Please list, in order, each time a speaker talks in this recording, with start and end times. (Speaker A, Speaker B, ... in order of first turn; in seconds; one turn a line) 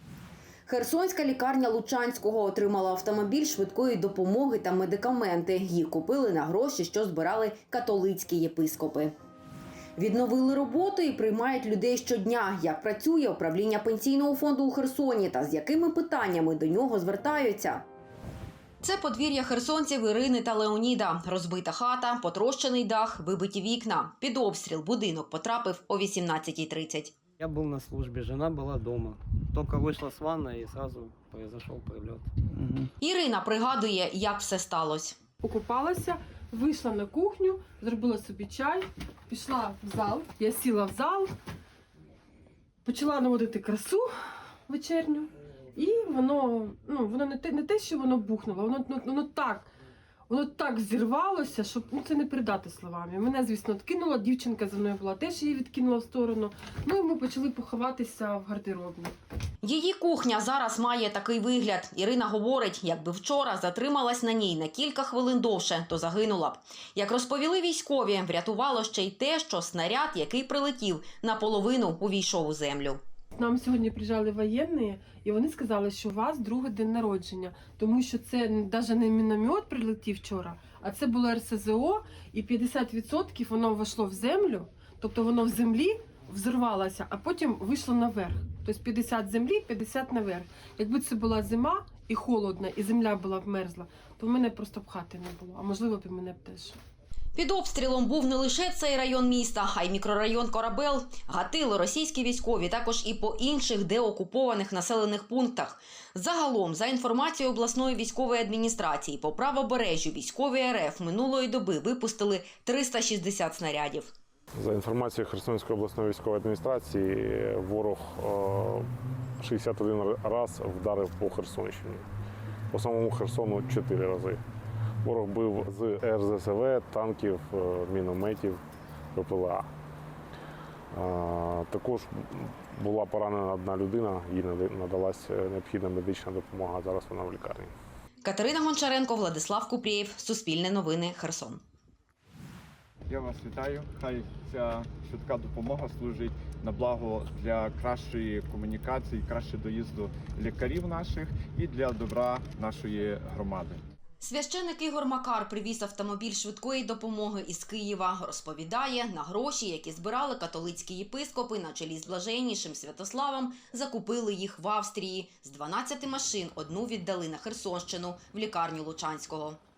Speaker A: 0.7-9.1
Speaker A: 10.0-17.9
Speaker A: 18.8-27.1
Speaker B: 27.4-32.9
Speaker A: 33.0-35.2
Speaker C: 35.4-41.3
Speaker C: 42.9-44.1
Speaker C: 44.7-49.7
Speaker C: 50.3-59.1
Speaker A: 59.6-73.0
Speaker C: 73.4-96.8
Speaker A: 97.3-114.1
Speaker D: 114.6-118.9
Speaker D: 119.4-122.0
Speaker D: 122.7-124.4
Speaker D: 125.0-128.6
Speaker D: 129.2-129.7
Speaker D: 130.9-137.7
Speaker A: 138.2-141.6
Speaker E: 143.1-153.8
Speaker A: 154.2-169.6